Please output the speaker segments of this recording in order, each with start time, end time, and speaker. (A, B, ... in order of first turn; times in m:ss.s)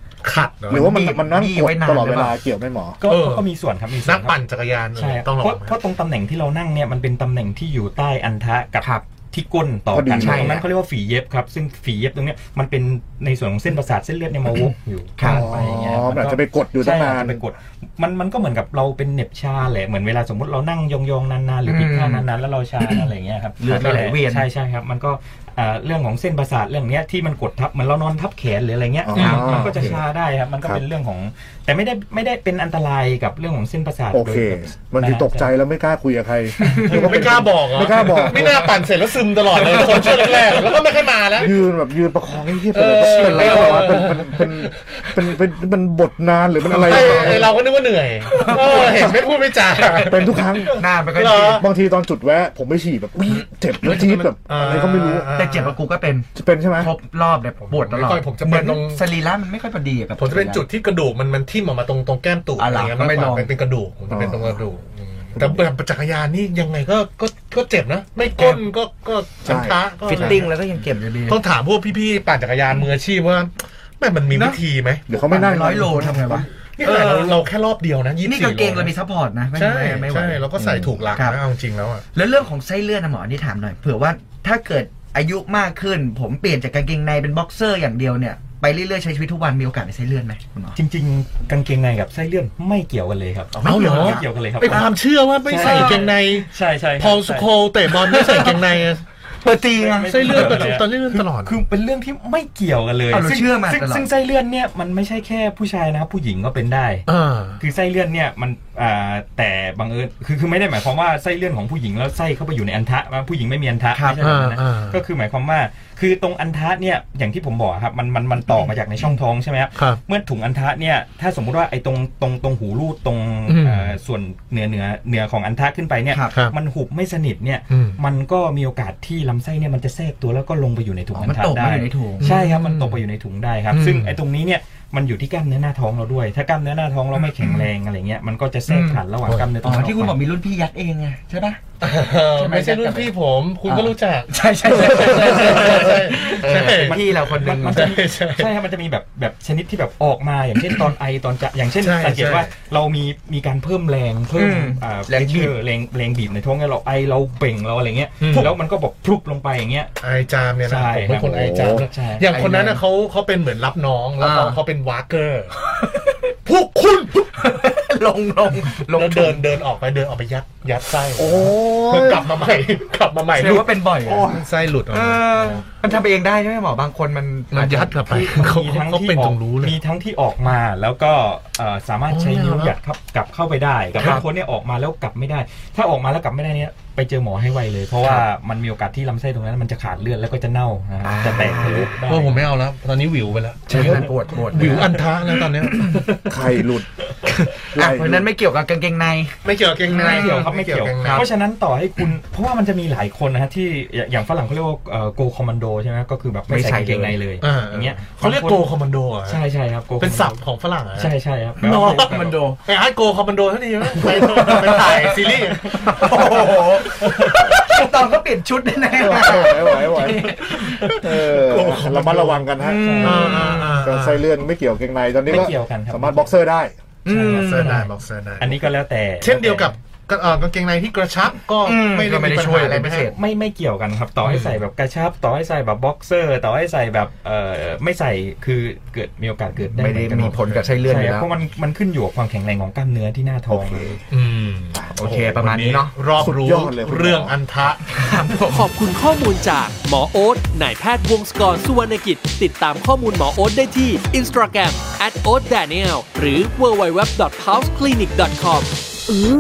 0:00.2-0:00.9 A
0:00.7-0:03.0 B
0:00.7-0:02.4 C
0:03.0-0:04.4 D
0:03.0-0:03.5 A
0:04.0-0:05.8 A
0:05.0-0:35.5 D
0:09.9-0:10.6 B
0:10.1-0:10.7 C
0:15.2-0:15.5 C
0:15.2-0:17.4 B
0:21.7-0:22.3 C
0:23.6-0:24.5 C
0:23.7-0:24.0 A
0:29.0-0:30.0 B
0:29.1-0:29.7 A
0:29.2-0:29.6 C
0:34.1-0:38.8 B
0:36.8-0:41.6 A
0:41.4-0:47.5 B
0:42.7-0:44.7 A
0:42.9-0:44.2 C
0:46.7-0:51.7 A
0:48.3-0:49.0 C
0:48.7-0:49.1 B
0:50.0-0:50.8 B
0:50.7-0:51.7 C
0:51.5-0:55.3 B
0:53.8-0:55.8 A
0:55.4-0:56.3 C
0:56.4-0:56.9 B
0:56.8-1:00.6 C
0:57.7-0:59.0 A
1:00.2-1:10.5 A
1:02.6-1:03.5 C
1:04.1-1:04.6 B
1:05.4-1:05.6 B
1:08.4-1:08.6 C
1:09.4-1:10.4 B
1:10.1-1:11.4 C
1:11.3-1:15.0 A
1:14.3-1:14.6 C
1:15.1-1:16.5 B
1:15.1-1:17.4 C
1:16.0-1:18.9 A
1:18.2-1:21.4 C
1:19.6-1:22.0 A
1:22.1-1:30.8 C
1:30.8-1:34.9 D
1:33.5-1:34.9 C
1:33.6-1:39.0 A
1:35.4-1:37.5 D
1:35.5-1:36.1 C
1:37.9-1:38.6 C
1:39.4-1:40.8 C
1:39.8-1:47.1 D
1:40.0-1:41.6 A
1:43.1-1:44.1 C
1:47.1-1:47.6 A
1:47.6-2:20.2 D
1:53.9-1:54.2 C
1:54.2-1:55.0 A
2:03.5-2:03.9 A
2:06.1-2:06.4 C
2:07.7-2:08.0 A
2:11.1-2:12.3 C
2:12.2-2:13.0 A
2:13.7-2:14.2 A
2:17.2-2:17.7 A
2:18.7-2:19.0 C
2:19.6-2:21.6 C
2:21.8-2:28.5 A
2:22.3-2:23.1 C
2:23.7-2:28.0 C
2:26.6-2:39.9 D
2:31.8-2:32.5 A
2:34.4-2:35.5 C
2:38.2-2:38.6 A
2:40.0-2:45.6 A
2:40.6-2:42.3 D
2:41.1-2:41.9 B
2:42.3-2:42.8 C
2:44.2-2:44.6 C
2:45.6-2:46.3 C
2:46.4-2:47.3 A
2:47.4-2:49.4 C
2:48.8-2:55.6 A
2:51.2-2:52.2 B
2:51.2-2:51.6 C
2:53.4-2:58.0 C
2:57.5-2:59.8 A
2:58.1-3:12.4 D
3:02.1-3:02.7 A
3:04.0-3:04.2 C
3:11.0-3:11.9 C
3:11.4-3:15.8 A
3:13.7-3:14.9 C
3:13.7-3:14.8 D
3:15.6-3:16.2 C
3:15.9-3:16.3 D
3:16.3-3:16.9 B
3:17.2-3:19.3 C
3:17.7-3:18.3 B
3:19.4-3:21.3 A
3:19.9-3:20.3 C
3:20.0-3:28.7 D
3:21.0-3:21.3 C
3:26.5-3:27.2 C
3:27.4-3:29.4 A
3:29.3-3:30.4 D
3:30.0-3:31.1 A
3:31.0-3:32.4 D
3:31.6-3:32.6 C
3:31.8-3:37.4 A
3:34.1-3:40.8 C
3:38.9-3:40.4 B
3:40.3-3:42.5 A
3:41.0-3:46.8 B
3:42.6-3:43.8 C
3:42.8-3:43.6 D
3:43.0-3:44.3 A
3:45.3-3:46.3 D
3:47.0-3:47.8 C
3:47.1-3:49.7 D
3:47.3-3:48.6 A
3:49.2-3:53.1 A
3:51.6-3:53.2 C
3:53.1-4:04.0 D
3:54.3-3:54.6 A
3:59.8-4:01.3 C
4:00.3-4:00.8 A
4:03.5-4:04.0 B
4:04.1-4:07.8 A
4:05.0-4:05.9 C
4:06.2-4:07.4 B
4:07.9-4:08.7 C
4:08.5-4:18.7 E